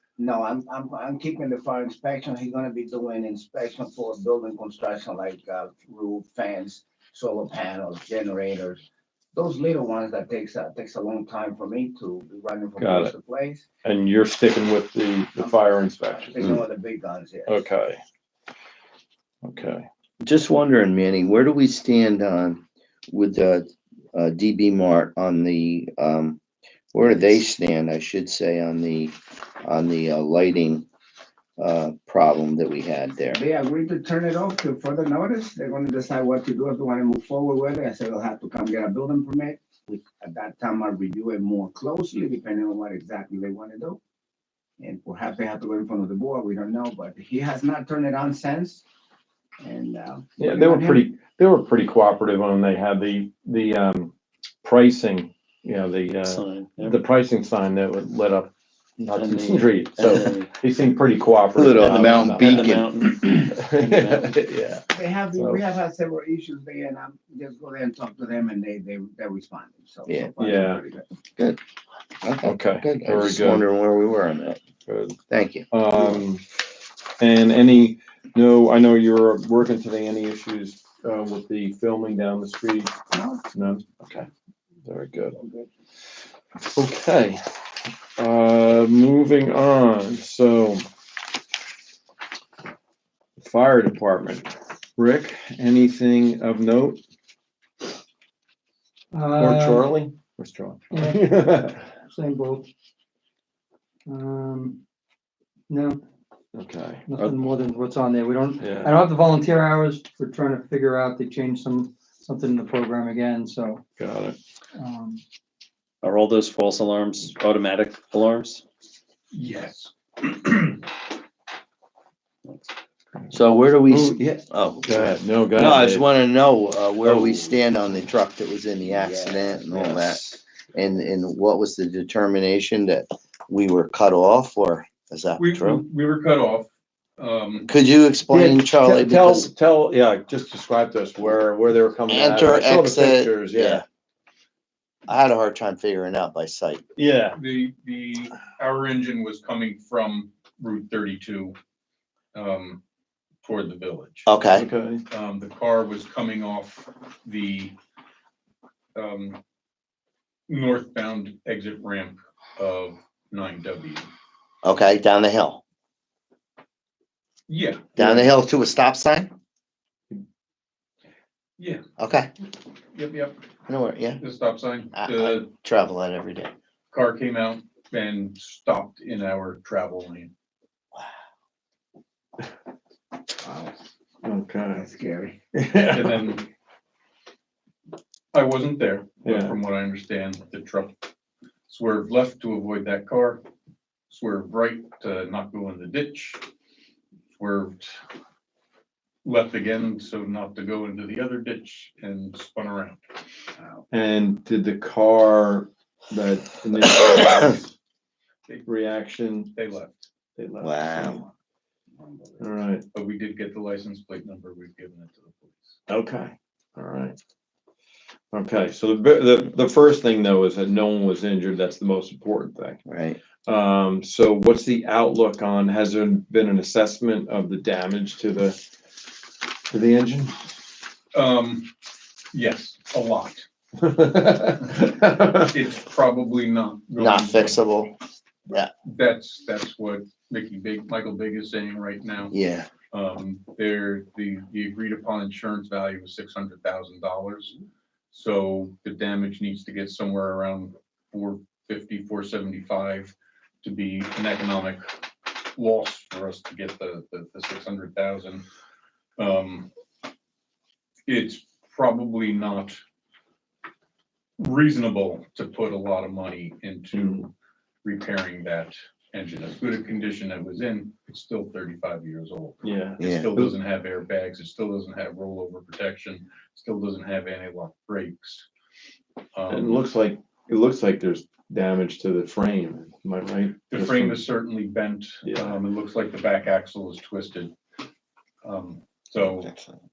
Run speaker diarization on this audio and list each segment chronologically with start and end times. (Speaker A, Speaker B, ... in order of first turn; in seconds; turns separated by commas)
Speaker A: 0.2-8.8, Speaker A: 9.3-13.6, Speaker B: 12.8-13.1, Speaker B: 13.8-16.6, Speaker A: 15.4-17.7, Speaker B: 17.5-18.0, Speaker B: 19.4-19.9, Speaker C: 20.2-26.4, Speaker C: 26.9-30.9, Speaker C: 31.6-33.4, Speaker A: 33.3-44.0, Speaker A: 44.8-48.8, Speaker A: 49.6-51.1, Speaker B: 50.4-54.1, Speaker B: 54.6-58.5, Speaker D: 56.2-57.0, Speaker D: 59.0-60.5, Speaker B: 59.0-62.7, Speaker C: 61.5-62.9, Speaker D: 61.9-64.3, Speaker B: 63.4-65.6, Speaker A: 64.9-71.0, Speaker C: 70.1-70.3, Speaker B: 70.4-70.8, Speaker C: 72.2-74.6, Speaker B: 72.4-73.6, Speaker B: 74.9-75.2, Speaker C: 75.3-76.2, Speaker B: 75.7-76.4, Speaker B: 77.2-82.9, Speaker A: 83.1-83.4, Speaker B: 83.5-84.3, Speaker B: 84.8-85.4, Speaker A: 85.3-85.7, Speaker B: 86.7-87.4, Speaker B: 88.2-90.8, Speaker B: 93.4-97.0, Speaker E: 99.1-99.9, Speaker B: 99.4-101.8, Speaker E: 100.9-101.4, Speaker E: 102.0-102.7, Speaker E: 104.1-104.8, Speaker E: 105.7-106.0, Speaker B: 106.5-107.5, Speaker E: 107.0-113.8, Speaker B: 108.6-109.0, Speaker B: 114.0-114.3, Speaker E: 114.8-115.2, Speaker D: 116.0-118.6, Speaker F: 119.3-120.8, Speaker D: 122.4-122.7, Speaker C: 123.3-135.8, Speaker B: 123.9-126.1, Speaker B: 127.1-127.5, Speaker A: 129.0-129.6, Speaker B: 129.7-130.1, Speaker F: 135.4-137.7, Speaker C: 137.7-139.5, Speaker B: 138.3-143.8, Speaker C: 142.1-143.8, Speaker C: 145.1-146.8, Speaker B: 147.0-147.4, Speaker F: 147.3-151.5, Speaker F: 152.3-152.8, Speaker F: 153.4-154.3, Speaker C: 154.2-154.7, Speaker B: 154.5-155.0, Speaker F: 155.1-157.7, Speaker F: 158.9-159.4, Speaker F: 160.5-164.1, Speaker C: 164.6-165.6, Speaker F: 167.5-167.9, Speaker C: 167.9-169.3, Speaker C: 172.0-172.3, Speaker F: 172.9-173.4, Speaker C: 173.7-174.2, Speaker F: 174.2-175.5, Speaker C: 174.9-176.5, Speaker F: 176.9-180.3, Speaker A: 183.4-183.7, Speaker B: 184.2-184.8, Speaker A: 184.7-185.4, Speaker B: 185.5-186.2, Speaker F: 185.9-186.4, Speaker F: 188.3-190.9, Speaker B: 189.2-189.6, Speaker F: 191.7-193.4, Speaker F: 194.1-196.4, Speaker F: 197.3-198.0, Speaker F: 199.2-203.0, Speaker A: 203.6-203.8, Speaker B: 203.9-207.7, Speaker B: 208.7-209.5, Speaker F: 209.5-210.1, Speaker B: 210.4-211.3, Speaker C: 210.6-211.2, Speaker A: 211.9-212.5, Speaker B: 212.4-212.8, Speaker F: 212.9-215.8, Speaker B: 215.9-217.1, Speaker B: 218.3-222.8, Speaker C: 222.8-223.2, Speaker B: 223.4-228.6, Speaker B: 229.7-230.3, Speaker F: 231.1-231.7, Speaker F: 232.3-233.4, Speaker B: 233.8-235.5, Speaker F: 235.4-237.6, Speaker C: 237.0-237.9, Speaker F: 238.8-242.3, Speaker C: 242.3-242.7, Speaker F: 242.9-247.6, Speaker F: 248.1-254.9, Speaker F: 255.5-258.4, Speaker F: 259.2-259.7, Speaker F: 261.1-262.8, Speaker F: 264.4-267.3, Speaker B: 266.9-267.2, Speaker F: 267.8-278.5, Speaker B: 272.6-273.5, Speaker C: 273.0-273.3, Speaker F: 279.3-279.8, Speaker B: 279.5-284.2, Speaker F: 283.7-287.5, Speaker B: 285.2-285.6, Speaker F: 288.4-289.5, Speaker C: 289.2-289.8